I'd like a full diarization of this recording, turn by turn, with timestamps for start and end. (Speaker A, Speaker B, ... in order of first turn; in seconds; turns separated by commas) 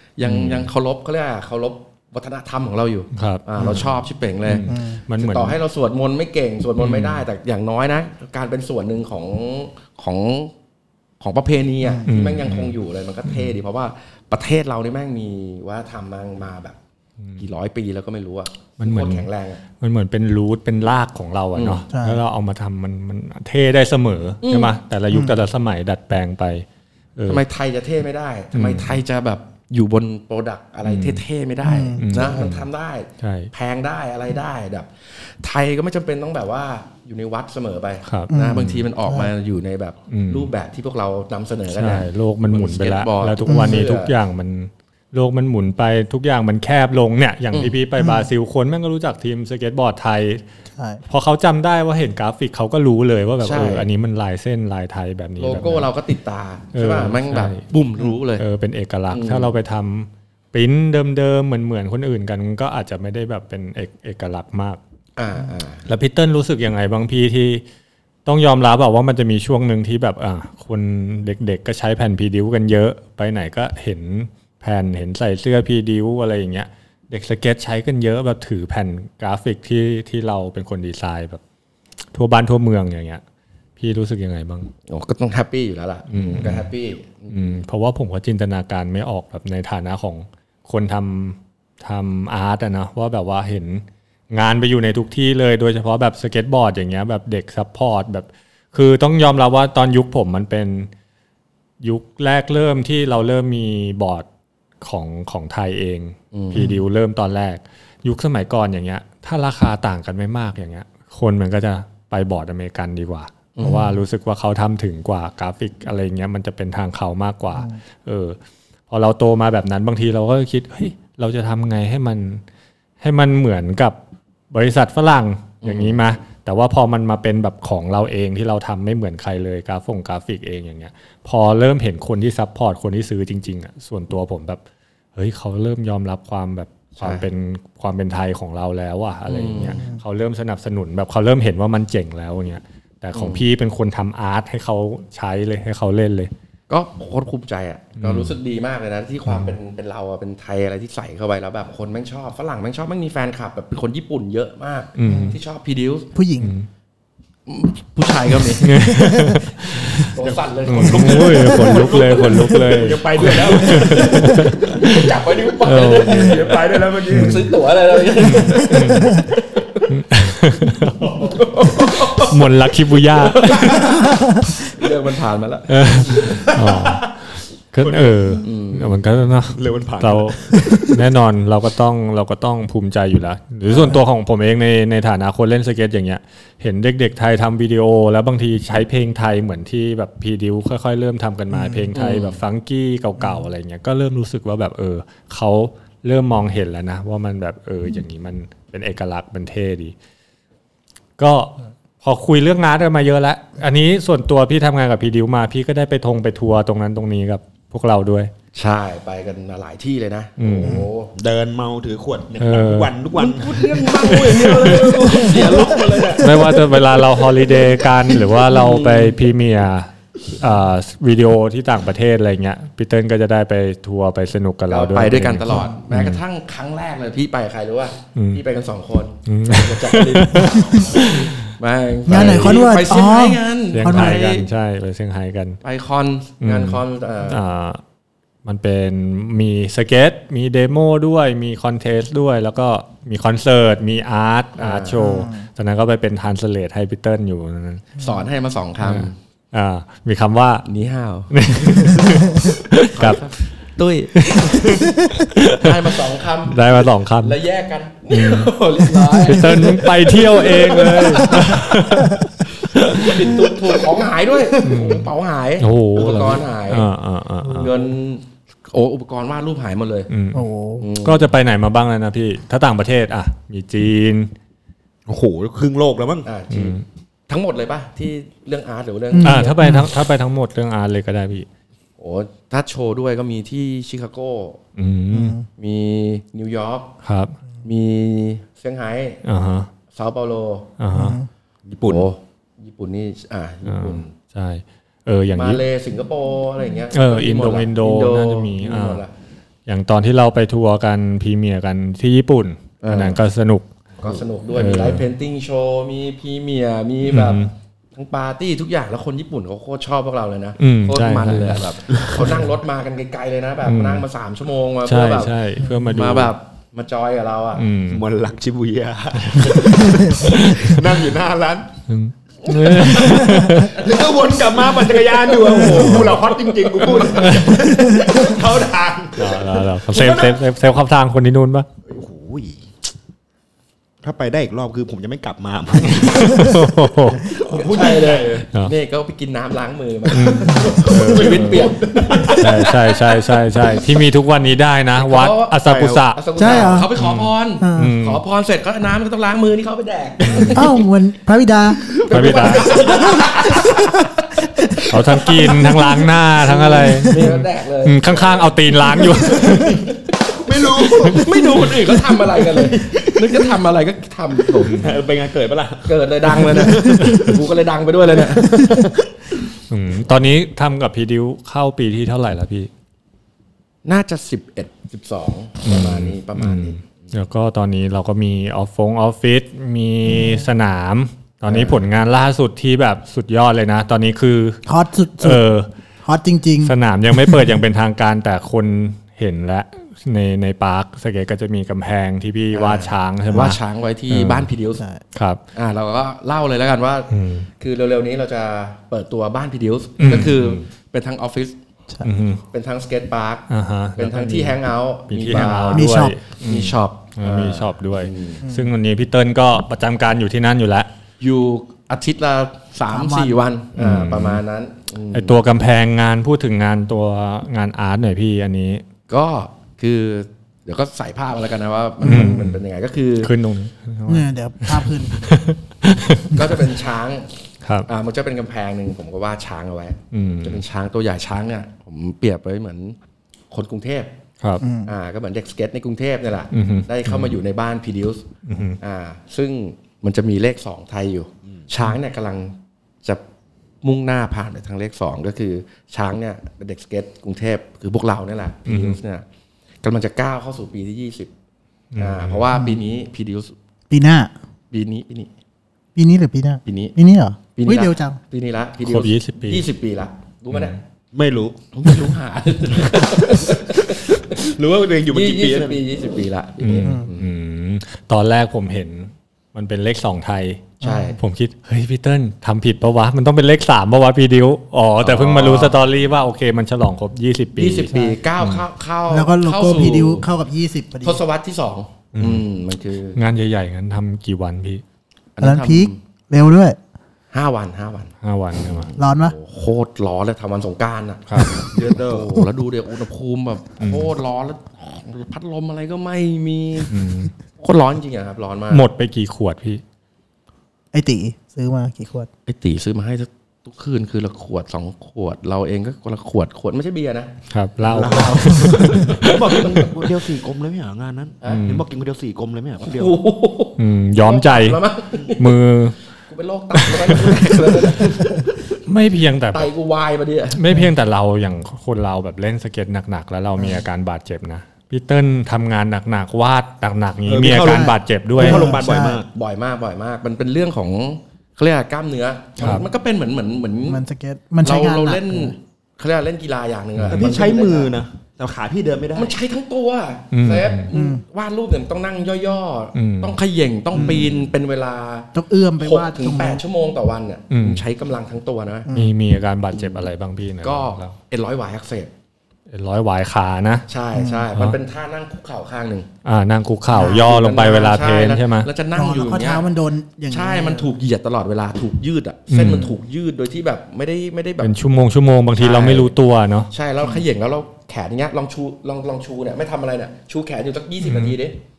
Speaker A: 0.2-10.5, Speaker B: 0.2-0.7, Speaker B: 3.1-3.9, Speaker B: 4.5-5.6, Speaker C: 4.7-5.0, Speaker B: 6.8-7.2, Speaker A: 11.2-16.8, Speaker C: 11.8-12.1, Speaker B: 12.1-12.8, Speaker B: 13.3-13.5, Speaker A: 17.4-19.6, Speaker B: 18.8-19.3, Speaker B: 19.8-26.7, Speaker A: 21.6-21.9, Speaker C: 21.9-22.2, Speaker A: 24.4-24.7, Speaker B: 27.2-27.4, Speaker A: 27.3-44.1, Speaker B: 28.5-29.0, Speaker B: 30.8-31.2, Speaker C: 31.6-32.4, Speaker B: 32.0-32.7, Speaker B: 33.2-33.5, Speaker B: 38.1-38.9, Speaker C: 38.3-39.3, Speaker B: 40.1-40.5, Speaker B: 41.7-50.4, Speaker C: 43.5-43.9, Speaker C: 48.0-48.3, Speaker C: 50.8-51.0, Speaker B: 51.1-55.9, Speaker A: 53.4-53.9, Speaker A: 55.4-58.4, Speaker B: 56.7-57.6, Speaker B: 58.4-64.8, Speaker A: 59.1-59.5, Speaker A: 65.2-65.8, Speaker B: 65.9-67.6, Speaker B: 68.3-81.4, Speaker B: 82.1-83.2, Speaker B: 83.8-84.7, Speaker A: 84.9-87.5, Speaker B: 86.1-86.7, Speaker B: 87.3-100.9, Speaker B: 101.8-104.3, Speaker B: 104.8-118.4, Speaker A: 106.3-106.7, Speaker A: 113.6-113.9, Speaker B: 118.9-122.4, Speaker B: 123.0-124.0, Speaker B: 124.5-134.6, Speaker A: 125.6-126.0, Speaker B: 135.2-146.3, Speaker A: 137.0-137.2, Speaker A: 139.3-139.8, Speaker C: 139.6-140.0, Speaker A: 143.1-143.4, Speaker A: 146.7-156.1, Speaker B: 148.0-148.3, Speaker B: 149.3-149.6, Speaker B: 155.0-155.4, Speaker C: 155.1-155.4, Speaker C: 156.1-156.5, Speaker B: 156.4-156.7, Speaker A: 157.5-158.8, Speaker B: 158.6-160.1, Speaker C: 158.9-159.4, Speaker A: 159.8-169.8, Speaker D: 160.2-165.1, Speaker B: 160.7-164.9, Speaker B: 165.6-166.4, Speaker D: 165.7-168.0, Speaker B: 167.1-167.5, Speaker B: 168.2-169.2, Speaker B: 169.9-171.3, Speaker A: 171.2-172.4, Speaker B: 172.2-174.0, Speaker A: 173.2-174.1, Speaker A: 174.6-176.4, Speaker B: 175.7-199.9, Speaker D: 176.2-177.1, Speaker D: 177.8-178.4, Speaker A: 178.4-179.0, Speaker D: 179.5-181.1, Speaker C: 191.5-191.9, Speaker A: 191.9-192.4, Speaker C: 193.2-193.4, Speaker B: 201.2-208.3, Speaker A: 208.5-211.1, Speaker B: 210.4-210.9, Speaker D: 211.2-216.4, Speaker B: 212.4-212.9, Speaker A: 213.2-216.6, Speaker B: 214.0-215.2, Speaker B: 216.2-226.2, Speaker A: 217.4-219.2, Speaker A: 224.7-234.5, Speaker B: 228.2-228.4, Speaker B: 229.3-231.4, Speaker C: 232.1-234.2, Speaker B: 232.1-232.7, Speaker B: 233.7-235.6, Speaker A: 235.6-237.4, Speaker B: 236.4-237.8, Speaker B: 238.4-247.9, Speaker A: 244.6-245.0, Speaker C: 245.0-245.5, Speaker A: 248.0-249.2, Speaker B: 248.8-250.7, Speaker A: 250.7-254.9, Speaker B: 251.3-253.2, Speaker B: 254.2-257.4, Speaker A: 255.5-261.8, Speaker B: 258.1-263.2, Speaker A: 262.6-266.9, Speaker B: 264.6-267.7, Speaker A: 267.5-270.1, Speaker B: 270.1-270.5, Speaker C: 270.3-270.9, Speaker A: 270.8-271.3, Speaker B: 271.0-274.3, Speaker D: 275.1-276.3, Speaker A: 276.2-279.6, Speaker B: 276.5-276.8, Speaker C: 279.1-279.9, Speaker B: 279.2-281.5, Speaker A: 282.0-284.6, Speaker B: 284.8-285.4, Speaker C: 285.1-285.5, Speaker A: 285.6-286.9, Speaker B: 287.0-287.4, Speaker A: 287.6-289.2, Speaker B: 289.2-289.7, Speaker A: 289.9-290.7, Speaker B: 290.8-291.2, Speaker C: 290.9-291.3, Speaker D: 291.7-292.1, Speaker A: 291.9-294.1, Speaker B: 293.7-295.6, Speaker A: 295.4-299.1, Speaker B: 296.9-299.0, Speaker B: 299.7-303.7, Speaker A: 302.8-303.2, Speaker A: 304.0-307.4, Speaker B: 304.5-305.1, Speaker B: 307.1-307.5, Speaker A: 307.9-315.3, Speaker B: 310.6-312.5, Speaker B: 313.6-314.1, Speaker B: 314.9-316.3, Speaker A: 315.9-317.6, Speaker B: 317.6-318.0, Speaker D: 317.9-321.7, Speaker B: 319.2-320.9, Speaker B: 321.9-323.8, Speaker A: 322.5-322.9, Speaker D: 322.8-330.4, Speaker B: 325.6-326.2, Speaker B: 327.1-327.5, Speaker C: 327.8-328.1, Speaker B: 329.2-331.7, Speaker D: 331.9-332.7, Speaker D: 334.0-336.7, Speaker B: 335.9-337.3, Speaker D: 337.2-338.5, Speaker A: 337.3-343.4, Speaker B: 340.1-341.7, Speaker D: 340.4-342.7, Speaker B: 342.4-348.2, Speaker A: 345.0-345.6, Speaker D: 345.6-346.0, Speaker A: 346.1-350.8, Speaker C: 346.4-346.9, Speaker C: 347.6-347.9, Speaker B: 350.2-350.7, Speaker C: 350.5-351.8, Speaker A: 352.0-355.7, Speaker D: 352.1-353.8, Speaker B: 352.1-352.9, Speaker B: 354.9-359.8, Speaker A: 356.5-359.6, Speaker D: 359.1-363.6, Speaker A: 360.6-364.9, Speaker D: 364.4-367.5, Speaker B: 364.6-364.9, Speaker A: 365.9-368.9, Speaker B: 367.0-367.3, Speaker D: 368.1-369.4, Speaker B: 369.7-372.7, Speaker A: 373.9-377.1, Speaker B: 375.6-384.6, Speaker A: 381.5-381.8, Speaker C: 384.7-385.4, Speaker B: 385.2-385.7, Speaker C: 386.0-387.4, Speaker B: 386.6-394.5, Speaker A: 392.5-394.8, Speaker C: 394.8-395.0, Speaker B: 395.1-395.4, Speaker A: 395.6-401.6, Speaker B: 397.1-397.5, Speaker B: 400.0-400.6, Speaker B: 402.0-402.4, Speaker A: 402.5-408.4, Speaker B: 403.5-410.9, Speaker C: 405.3-406.2, Speaker C: 408.4-408.7, Speaker A: 411.2-415.4, Speaker C: 412.9-413.4, Speaker B: 413.8-414.4, Speaker B: 415.1-418.9, Speaker A: 419.1-423.3, Speaker C: 422.0-422.6, Speaker B: 422.0-422.6, Speaker B: 423.2-426.6, Speaker C: 424.1-425.3, Speaker A: 426.3-427.3, Speaker B: 427.6-427.9, Speaker A: 427.9-433.0, Speaker B: 430.1-430.6, Speaker A: 433.5-434.1, Speaker C: 434.6-434.9, Speaker A: 434.9-438.3, Speaker B: 436.5-437.4, Speaker B: 438.5-438.8, Speaker A: 438.8-443.2, Speaker A: 443.8-449.2, Speaker B: 448.7-449.0, Speaker A: 449.8-451.3, Speaker B: 451.9-452.5, Speaker A: 452.0-453.6, Speaker C: 453.9-454.3, Speaker A: 454.7-455.3, Speaker C: 456.0-458.2, Speaker A: 456.6-456.9, Speaker A: 457.6-460.8, Speaker B: 458.8-459.7, Speaker D: 461.1-462.0, Speaker A: 461.7-464.5, Speaker D: 464.4-465.8, Speaker A: 465.0-467.3, Speaker B: 466.6-478.6, Speaker C: 466.8-467.1, Speaker C: 470.8-471.1, Speaker A: 470.8-471.2, Speaker A: 475.0-475.8, Speaker A: 477.6-480.3, Speaker C: 477.9-478.2, Speaker C: 479.1-481.2, Speaker A: 481.0-483.2, Speaker B: 482.1-482.4, Speaker B: 483.1-484.8, Speaker A: 485.4-486.0, Speaker C: 485.4-486.8, Speaker A: 487.3-496.9, Speaker B: 488.2-488.9, Speaker C: 489.0-489.4, Speaker B: 491.3-491.6, Speaker D: 491.7-492.4, Speaker B: 493.8-494.1, Speaker B: 496.9-497.3, Speaker A: 497.6-498.8, Speaker B: 498.7-499.8, Speaker C: 500.9-502.3, Speaker A: 502.5-507.3, Speaker B: 507.5-509.6, Speaker D: 507.8-513.2, Speaker A: 508.0-509.9, Speaker B: 511.5-511.8, Speaker A: 512.8-515.6, Speaker B: 513.8-514.8, Speaker B: 515.4-516.0, Speaker A: 516.3-518.8, Speaker B: 516.9-517.9, Speaker B: 518.9-519.7, Speaker A: 519.5-520.6, Speaker B: 520.5-528.7, Speaker D: 527.3-529.3, Speaker C: 527.6-529.2, Speaker A: 528.8-534.0, Speaker B: 532.6-532.9, Speaker C: 533.9-535.6, Speaker A: 534.6-538.0, Speaker B: 537.0-537.4, Speaker D: 537.1-539.4, Speaker A: 539.1-548.9, Speaker B: 540.3-540.9, Speaker C: 540.9-541.2, Speaker B: 543.0-543.4, Speaker C: 543.9-544.3, Speaker B: 544.0-544.3, Speaker C: 545.3-546.6, Speaker B: 547.5-547.8, Speaker B: 548.9-551.1, Speaker A: 549.8-550.1, Speaker A: 550.6-552.1, Speaker B: 552.7-553.9, Speaker A: 553.9-556.1, Speaker C: 554.1-554.5, Speaker B: 554.5-554.8, Speaker B: 556.2-558.7, Speaker A: 556.9-559.6, Speaker C: 558.9-560.9, Speaker A: 560.3-564.7, Speaker B: 562.5-562.9, Speaker B: 564.6-566.7, Speaker A: 565.6-566.1, Speaker A: 566.7-571.6, Speaker B: 571.0-571.4